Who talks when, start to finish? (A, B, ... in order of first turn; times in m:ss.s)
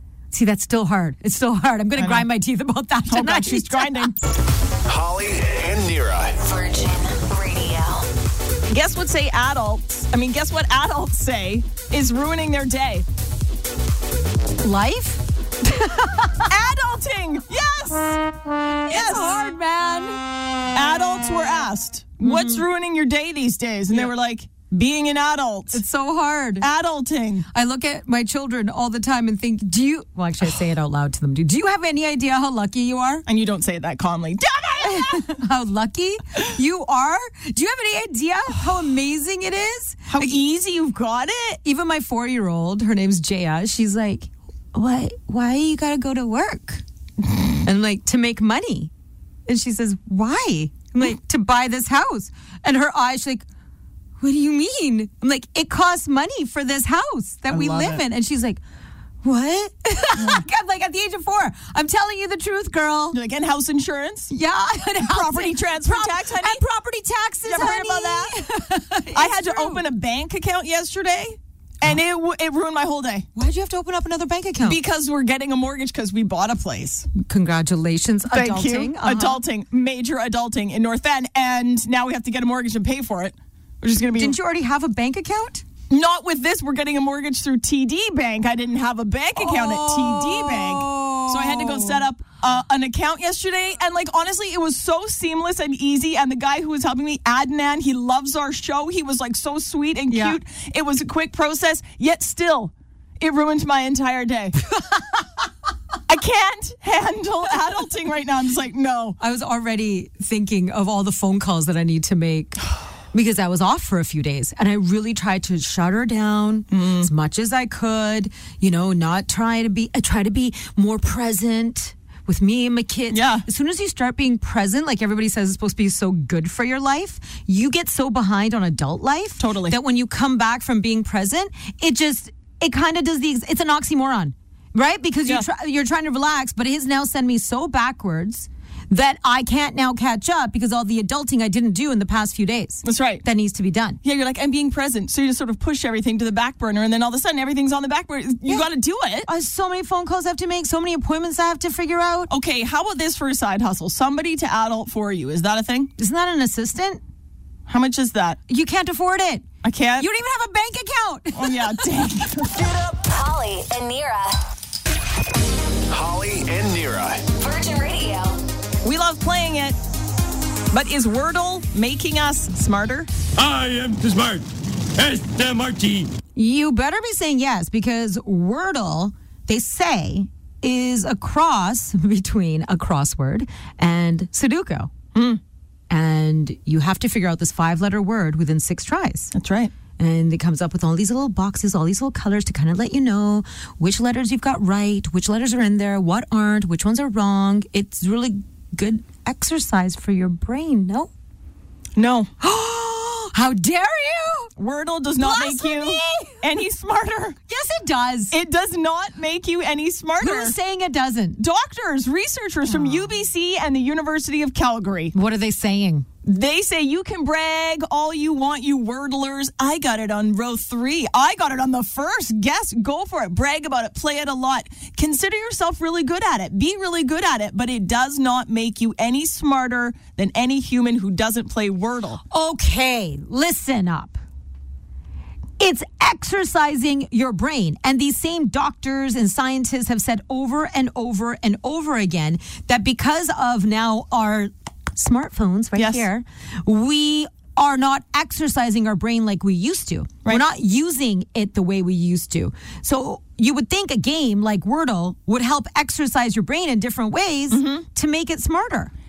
0:00.3-0:04.1 A
0:02.0-0:02.2 B
0:03.1-0:04.2 B
0:04.8-0:06.4 C
0:06.4-0:08.1 D
0:08.7-0:13.0 B
0:14.6-0:16.5 A
0:16.5-0:19.4 B
0:18.8-0:20.2 A
0:20.7-0:25.8 B
0:22.2-0:22.6 A
0:25.7-0:26.7 A
0:26.6-0:27.5 B
0:27.5-0:33.2 A
0:33.2-0:35.3 B
0:34.8-0:40.4 A
0:40.1-0:41.6 B
0:41.6-0:46.8 A
0:47.6-0:48.9 A
0:49.5-0:53.4 A
0:54.2-0:58.6 A
0:57.5-0:58.0 B
0:59.2-1:03.2 A
1:00.2-1:00.4 B
1:03.1-1:04.3 B
1:04.3-1:09.8 A
1:05.0-1:06.6 B
1:07.4-1:08.4 B
1:09.1-1:13.3 B
1:13.4-1:14.8 A
1:14.6-1:17.1 B
1:17.1-1:19.4 A
1:18.3-1:24.4 B
1:24.2-1:25.6 A
1:25.9-1:44.6 B
1:29.4-1:32.0 A
1:40.1-1:40.4 A
1:44.7-1:45.0 A
1:46.1-1:49.2 B
1:49.2-1:52.6 A
1:53.1-2:24.0 A
1:56.7-1:57.1 B
2:03.1-2:03.4 B
2:09.4-2:09.8 B
2:22.8-2:23.2 B
2:24.0-2:29.3 B
2:29.2-2:32.3 A
2:32.3-2:35.9 B
2:36.0-2:37.0 A
2:37.7-2:38.4 B
2:38.5-2:42.0 A
2:39.6-2:40.1 B
2:41.3-2:42.7 B
2:42.5-2:44.4 D
2:45.9-2:47.2 C
2:47.3-2:48.4 D
2:48.8-2:49.8 B
2:50.7-2:53.1 B
2:53.4-2:56.1 E
2:56.4-3:04.9 A
3:05.1-3:05.4 B
3:05.9-3:09.3 A
3:09.3-3:09.7 B
3:10.0-3:21.1 A
3:22.0-3:22.3 B
3:22.4-3:24.5 A
3:24.6-3:27.4 B
3:25.2-3:26.4 A
3:27.5-3:28.3 A
3:28.3-3:30.6 B
3:30.2-3:31.4 A
3:31.4-3:35.1 B
3:32.6-3:33.2 A
3:35.1-3:36.1 A
3:36.2-3:52.2 B
3:52.3-3:54.2 A
3:55.6-4:18.9 A
4:05.8-4:06.0 B
4:17.5-4:17.8 B